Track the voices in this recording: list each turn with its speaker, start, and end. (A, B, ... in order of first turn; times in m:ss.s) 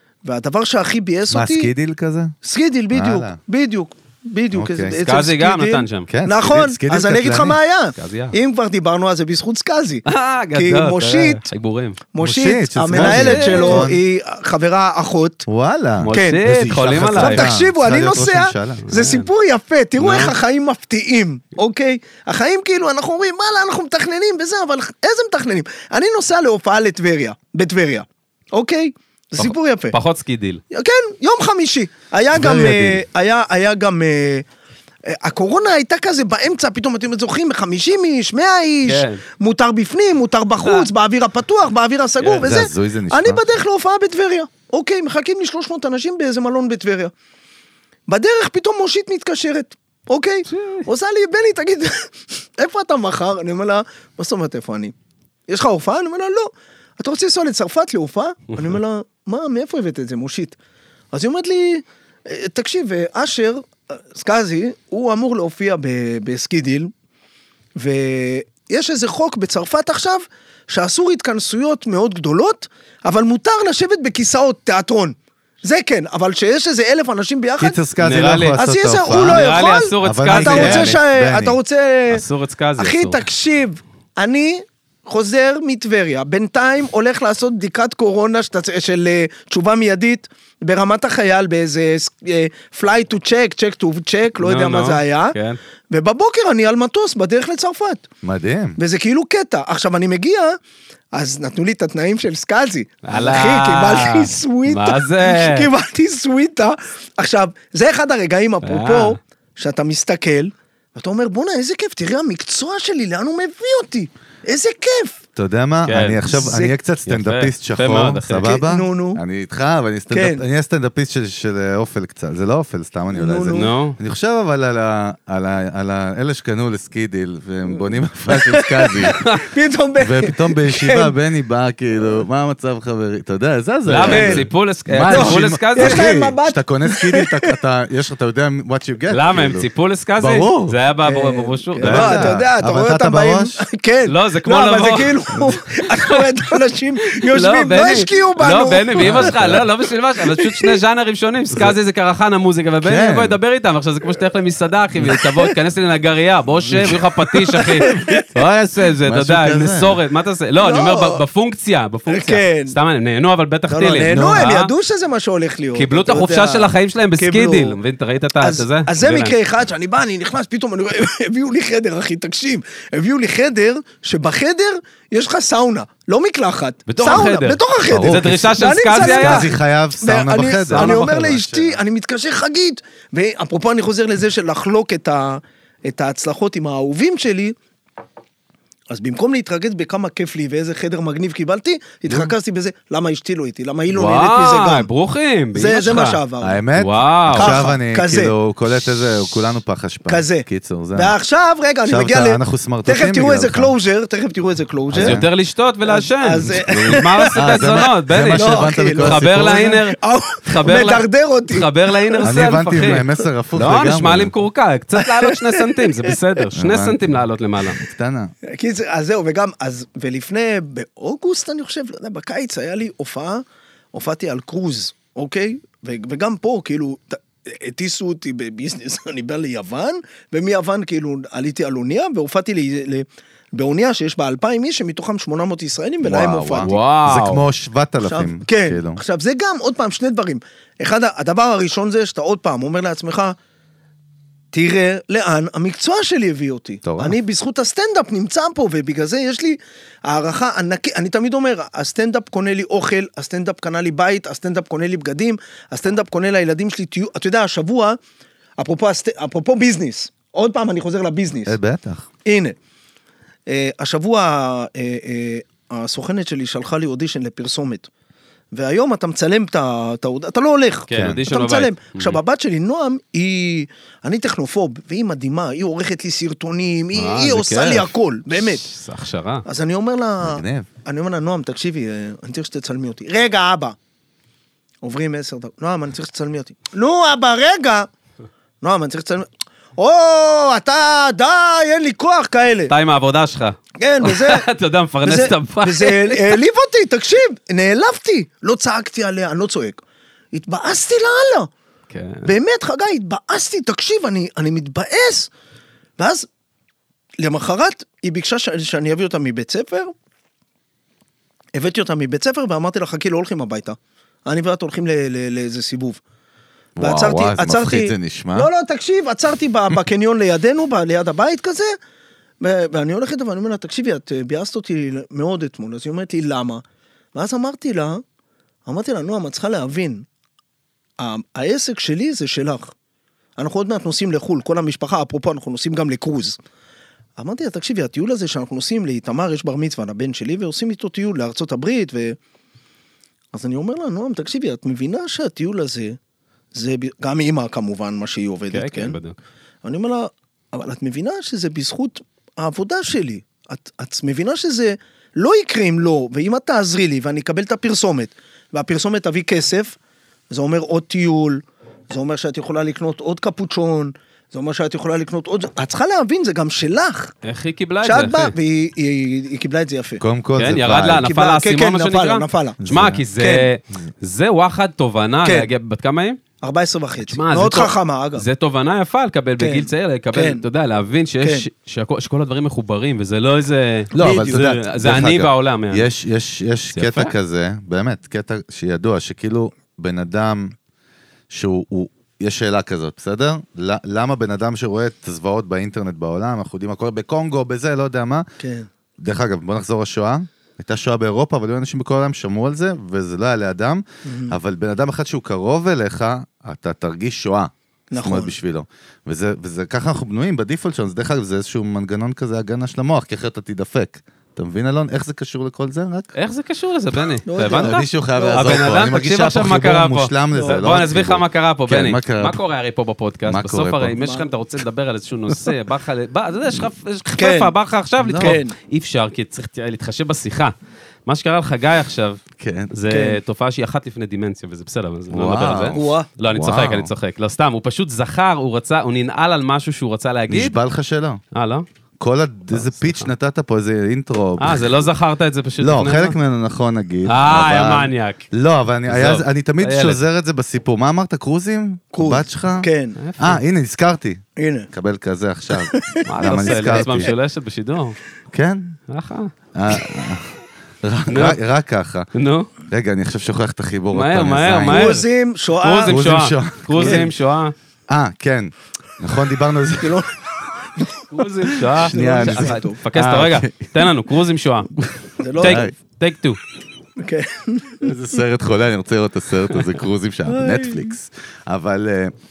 0:00.2-0:01.7 A
0:01.3-0:02.4 B
0:02.4-0:11.5 A
0:02.9-0:03.4 B
0:04.5-0:05.0 B
0:05.0-0:06.1 C
0:06.1-0:07.6 B
0:08.0-0:08.3 C
0:10.1-0:12.0 C
0:12.1-0:15.5 A
0:12.2-0:14.0 B
0:12.9-0:13.9 C
0:15.5-0:18.9 B
0:16.0-0:17.5 C
0:16.1-0:30.0 A
0:18.9-0:19.3 C
0:20.0-0:20.4 C
0:29.4-0:30.6 C
0:30.7-0:34.4 A
0:32.3-0:33.0 B
0:35.0-0:47.1 A
0:38.9-0:39.2 C
0:42.2-0:42.5 C
0:42.4-0:43.4 B
0:48.1-0:54.9 A
0:50.5-0:50.8 C
0:55.5-1:00.6 A
1:01.1-1:06.9 A
1:07.8-1:17.8 A
1:17.6-1:21.6 B
1:18.0-1:21.0 C
1:18.6-1:22.2 A
1:22.1-1:23.2 C
1:22.8-1:35.4 A
1:34.4-1:35.6 C
1:35.9-1:38.0 A
1:38.2-1:38.8 B
1:38.8-1:40.6 A
1:41.1-1:55.2 A
1:43.0-1:45.7 C
1:48.6-1:49.2 C
1:55.4-2:09.2 B
1:55.9-1:56.5 C
1:56.3-1:56.7 A
1:57.0-1:58.6 C
1:58.4-1:59.2 A
2:00.1-2:00.4 A
2:03.1-2:03.7 A
2:03.5-2:04.0 C
2:08.3-2:11.1 A
2:10.0-2:20.7 B
2:13.9-2:16.1 C
2:14.0-2:14.5 A
2:15.1-2:17.6 A
2:19.1-2:22.4 C
2:21.0-2:29.5 A
2:21.8-2:23.6 B
2:24.1-2:26.6 C
2:27.1-2:44.7 C
2:29.0-2:29.7 B
2:30.4-2:30.8 A
2:32.8-2:33.4 B
2:36.7-2:37.0 B
2:37.4-2:38.3 A
2:39.0-2:40.0 B
2:40.6-2:41.2 A
2:42.1-2:42.7 A
2:43.7-2:47.8 A
2:45.7-2:49.4 C
2:48.4-3:07.6 A
2:56.9-2:59.5 C
2:57.9-3:01.8 B
3:00.6-3:01.4 C
3:08.9-3:14.9 A
3:13.9-3:16.2 C
3:15.6-3:16.6 A
3:16.4-3:21.1 B
3:16.8-3:17.6 C
3:17.3-3:18.3 A
3:20.1-3:25.2 A
3:21.9-3:23.7 B
3:24.9-3:25.3 B
3:25.0-3:37.8 C
3:25.9-3:27.7 A
3:26.6-3:29.8 B
3:28.3-3:33.0 A
3:32.3-3:34.3 B
3:35.0-3:36.2 A
3:36.6-3:38.3 B
3:38.4-3:56.8 A
3:56.0-3:59.0 B
3:56.6-3:57.4 C
3:58.0-4:03.4 A
4:04.5-4:18.0 A
4:06.8-4:07.2 B
4:18.6-4:21.6 A
4:21.5-4:22.1 B
4:22.2-4:22.6 A
4:23.5-4:27.9 A
4:28.5-4:38.6 A
4:30.9-4:32.2 C
4:30.9-4:31.2 B
4:37.0-4:39.5 C
4:39.5-4:43.8 A
4:40.2-4:40.7 B
4:44.8-4:47.9 A
4:48.6-4:52.7 A
4:52.7-4:56.4 C
4:53.8-4:54.5 A
4:55.0-4:59.8 A
5:00.3-5:01.5 A
5:01.9-5:02.3 C
5:02.2-5:05.3 A
5:06.0-5:06.3 A
5:07.2-5:09.9 A
5:11.6-5:16.0 A
5:16.8-5:18.5 B
5:16.8-5:21.8 A
5:22.4-5:26.6 A
5:27.1-5:28.0 A
5:28.7-5:30.1 A
5:31.0-5:32.7 A
5:33.4-5:36.4 A
5:37.2-5:42.2 A
5:43.3-5:46.0 A
5:46.5-5:49.0 A
5:48.5-5:49.2 C
5:49.6-5:59.8 A
6:00.3-6:07.1 A
6:07.2-6:08.3 C
6:07.8-6:10.0 A
6:10.0-6:11.1 B
6:10.4-6:16.2 C
6:11.0-6:12.6 A
6:12.6-6:13.0 B
6:13.2-6:13.5 A
6:16.4-6:18.2 A
6:17.1-6:25.9 C
6:19.4-6:20.4 A
6:24.0-6:24.3 A
6:24.0-6:30.5 B
6:26.7-6:27.1 C
6:31.3-6:38.2 B
6:38.4-6:38.7 A
6:39.0-6:56.1 B
6:44.0-6:44.4 A
6:47.9-6:48.3 A
6:56.2-7:10.5 C
6:57.3-6:58.8 A
6:57.5-7:02.4 B
7:00.3-7:00.8 A
7:03.3-7:04.0 B
7:04.0-7:04.2 A
7:07.2-7:07.5 A
7:08.0-7:08.4 B
7:08.2-7:08.5 A
7:11.1-7:12.2 C
7:12.4-7:12.7 B
7:12.7-7:20.6 C
7:12.9-7:13.2 A
7:15.1-7:15.8 B
7:15.7-7:16.1 A
7:16.3-7:16.9 B
7:20.3-7:21.2 B
7:21.3-7:21.7 C
7:22.0-7:24.8 B
7:22.5-7:23.1 C
7:24.4-7:26.2 C
7:25.6-7:37.1 B
7:27.1-7:28.2 C
7:28.9-7:30.0 C
7:31.9-7:33.0 A
7:33.0-7:33.4 C
7:34.4-7:34.7 A
7:35.6-7:37.1 A
7:36.1-7:38.0 C
7:38.3-7:38.7 B
7:38.9-7:39.3 C
7:39.5-7:42.1 B
7:41.1-7:41.4 C
7:42.2-7:42.5 C
7:42.7-7:45.0 B
7:43.9-7:45.1 C
7:44.7-7:46.0 A
7:45.6-7:47.5 C
7:45.9-7:47.1 B
7:46.8-7:47.1 A
7:47.9-7:50.0 B
7:49.8-7:50.2 A
7:50.8-7:52.8 A
7:51.1-7:54.7 C
7:51.7-7:53.9 B
7:55.2-7:55.6 A
7:55.4-7:56.4 C
7:55.4-7:55.8 B
7:57.0-7:57.9 A
7:57.8-8:02.2 B
8:00.3-8:00.9 A